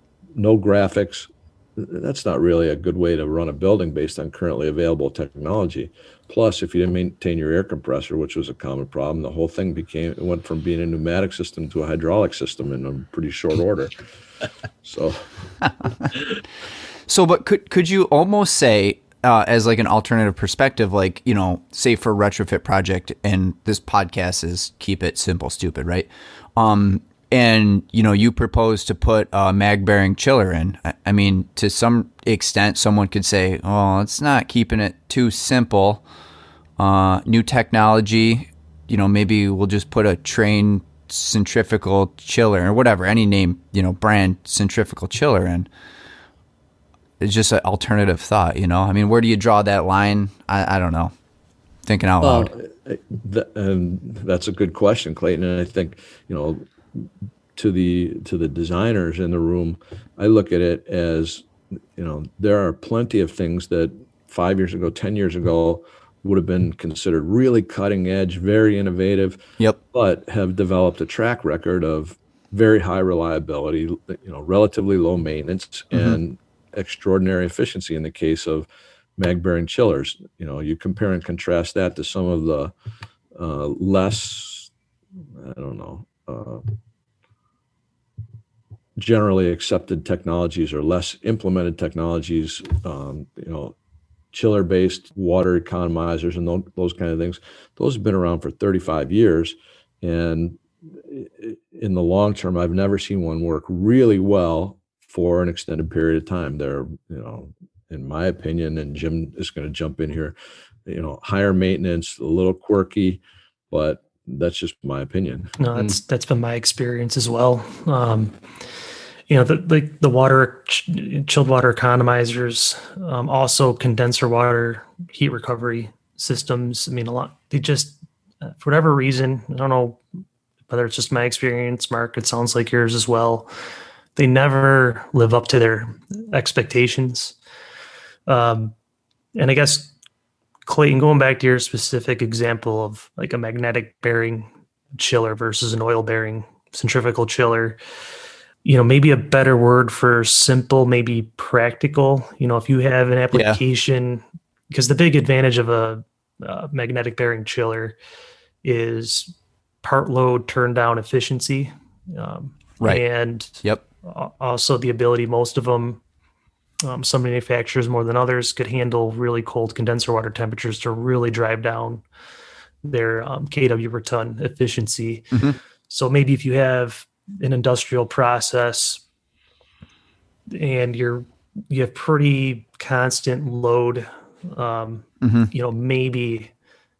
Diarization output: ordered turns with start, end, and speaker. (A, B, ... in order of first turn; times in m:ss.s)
0:00.4-0:14.0 A
0:14.8-0:15.2 A
0:17.1-0:36.0 B
0:36.8-0:45.7 B
0:47.2-0:51.1 B
0:51.9-0:52.5 B
0:52.2-1:22.7 A
1:15.9-1:16.2 B
1:23.4-1:24.7 A
1:25.4-1:26.7 A
1:29.0-1:33.8 A
1:34.3-1:55.5 A
1:55.6-1:58.4 C
1:59.3-2:10.0 C
2:10.7-2:13.5 C
2:14.2-2:17.4 C
2:18.3-2:18.8 C
2:19.4-2:19.9 C
2:20.7-2:27.8 C
2:28.6-2:38.0 C
2:33.3-2:33.6 B
2:38.6-2:46.0 C
2:46.8-2:52.0 C
2:52.8-2:59.0 C
3:00.5-3:06.5 C
3:05.2-3:05.5 B